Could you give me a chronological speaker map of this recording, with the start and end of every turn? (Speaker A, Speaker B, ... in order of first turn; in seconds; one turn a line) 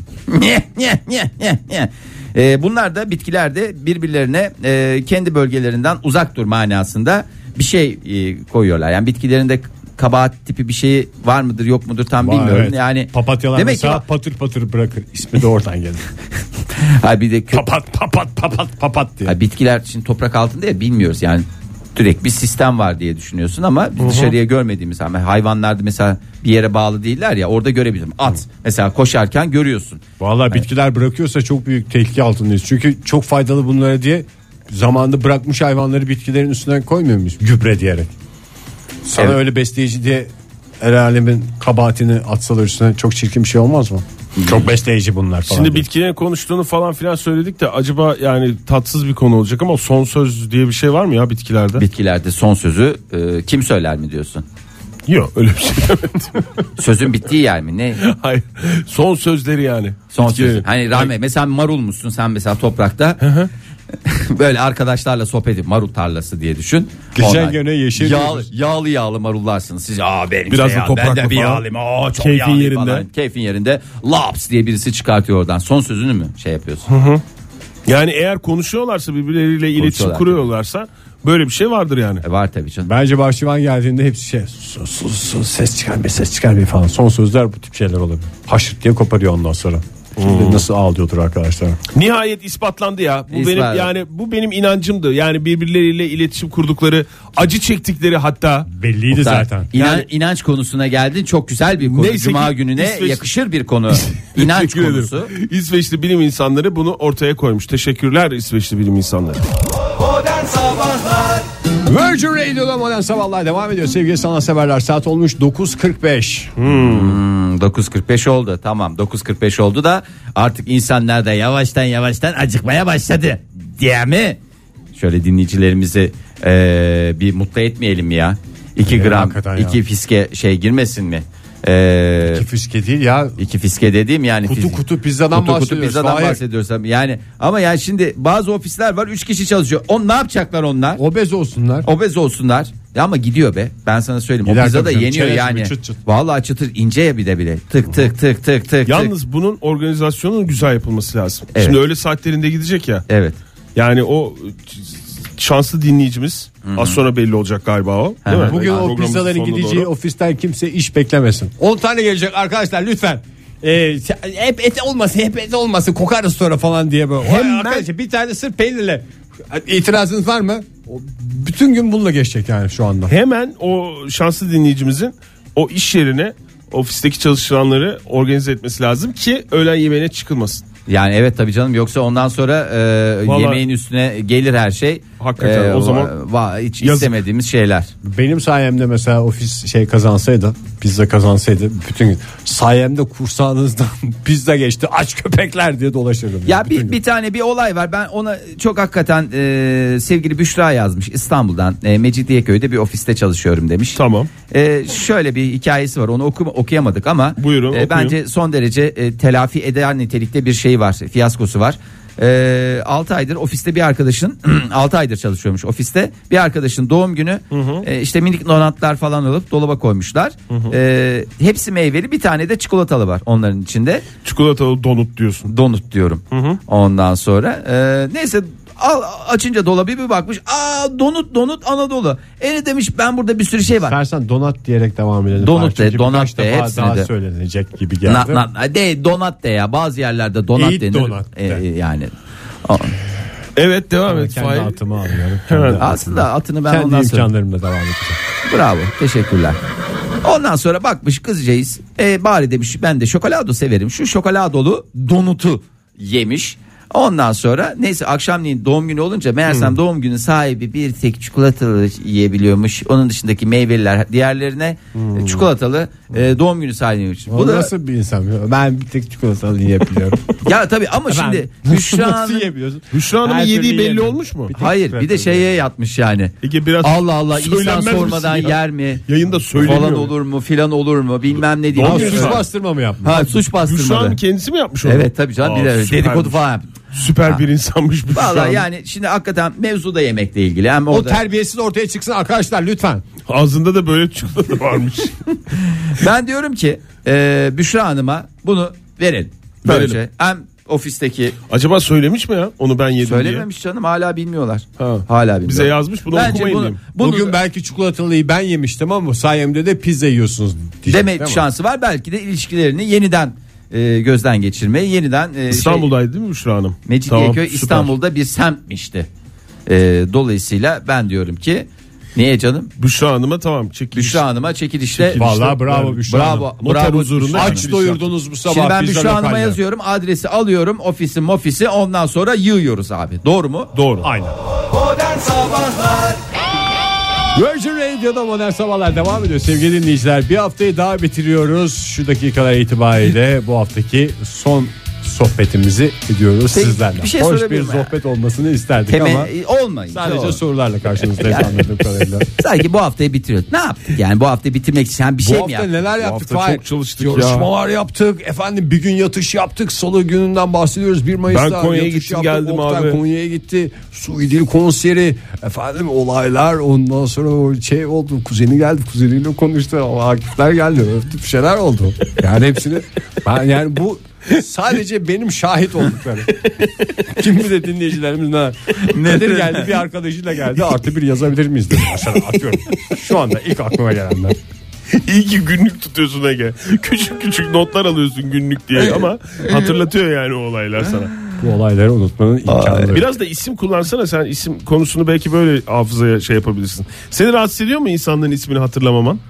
Speaker A: 0.3-14.0
Speaker B: 12.2-16.1
Speaker A: 16.7-17.6
Speaker B: 17.5-19.3
Speaker A: 19.2-30.6
Speaker C: 24.0-24.3
Speaker B: 30.2-38.1
Speaker B: 39.0-40.3
Speaker B: 40.8-45.9
Speaker A: 44.4-44.6
Speaker C: 45.5-51.8
Speaker A: 51.8-54.4
Speaker C: 55.1-56.6
Speaker A: 56.8-58.0
Speaker C: 58.0-61.1
Speaker A: 60.1-63.2
Speaker C: 63.2-63.5
Speaker A: 64.0-76.9
Speaker B: 67.1-68.5
Speaker C: 70.5-71.6
Speaker C: 72.2-73.0
Speaker C: 76.9-77.2
Speaker C: 77.9-82.2
Speaker A: 79.8-80.5
Speaker A: 82.2-82.9
Speaker B: 82.8-91.8
Speaker C: 90.2-90.6
Speaker C: 91.9-98.7
Speaker A: 93.3-93.9
Speaker B: 98.7-99.7
Speaker A: 99.1-105.3
Speaker C: 99.8-100.0
Speaker C: 101.8-103.3
Speaker C: 103.9-109.5
Speaker B: 111.8-116.6
Speaker C: 116.6-117.2
Speaker A: 116.7-124.4
Speaker A: 124.9-132.4
Speaker B: 128.8-129.8
Speaker B: 132.2-133.4
Speaker A: 133.4-134.8
Speaker B: 134.4-136.4
Speaker A: 135.3-141.0
Speaker B: 141.0-141.9
Speaker A: 141.8-149.1
Speaker B: 144.4-146.0
Speaker C: 148.8-153.0
Speaker A: 151.5-151.8
Speaker A: 153.1-153.4
Speaker C: 153.7-159.9
Speaker A: 156.6-157.0
Speaker A: 158.2-158.9
Speaker B: 158.4-173.1
Speaker C: 167.2-167.8
Speaker C: 173.1-180.6
Speaker A: 180.9-187.9
Speaker C: 183.2-183.6
Speaker C: 185.2-186.1
Speaker C: 186.8-187.1
Speaker B: 188.0-197.0
Speaker A: 196.4-224.1
Speaker C: 203.9-204.3
Speaker C: 207.4-208.2
Speaker C: 217.5-217.8
Speaker C: 220.5-220.7
Speaker C: 224.2-225.5
Speaker A: 225.5-233.9
Speaker C: 226.3-226.6
Speaker B: 233.7-238.4
Speaker A: 235.4-237.1
Speaker A: 238.0-242.1
Speaker B: 240.5-241.6
Speaker A: 242.6-242.9
Speaker C: 243.6-244.8
Speaker B: 244.1-248.2
Speaker C: 245.5-245.8
Speaker A: 245.8-247.3
Speaker A: 248.4-249.6
Speaker A: 250.2-267.7
Speaker C: 265.1-265.4
Speaker B: 267.3-270.4
Speaker A: 270.4-272.5
Speaker B: 271.1-275.5
Speaker C: 272.9-274.5
Speaker A: 274.5-279.0
Speaker C: 276.4-280.1
Speaker A: 279.5-282.4
Speaker C: 281.7-282.4
Speaker B: 281.8-283.4
Speaker A: 283.0-284.2
Speaker C: 283.2-286.4
Speaker A: 284.8-286.7
Speaker C: 286.9-288.6
Speaker A: 288.1-291.2
Speaker B: 290.9-293.0
Speaker C: 293.2-295.1
Speaker A: 295.8-301.4
Speaker C: 299.6-300.0
Speaker C: 301.5-303.5
Speaker A: 303.0-307.4
Speaker C: 304.8-306.8
Speaker B: 307.0-311.4
Speaker A: 310.9-315.9
Speaker C: 315.5-317.9
Speaker A: 316.9-319.1
Speaker A: 319.7-322.7
Speaker C: 322.8-324.2
Speaker A: 323.9-325.2
Speaker C: 324.9-328.1
Speaker B: 325.1-326.5
Speaker A: 326.0-327.7
Speaker B: 327.3-329.6
Speaker A: 328.5-333.7
Speaker C: 333.7-334.1
Speaker B: 334.0-334.3
Speaker B: 337.3-349.3
Speaker A: 346.5-347.9
Speaker A: 348.9-350.4
Speaker B: 349.9-352.3
Speaker A: 351.2-351.5
Speaker A: 352.3-355.7
Speaker B: 355.2-376.5
Speaker C: 356.0-357.5
Speaker C: 361.3-363.0
Speaker C: 376.4-376.9
Speaker B: 377.0-384.4
Speaker A: 378.7-379.8
Speaker C: 384.9-391.1
Speaker B: 391.4-393.1
Speaker A: 392.5-393.0
Speaker C: 392.9-399.2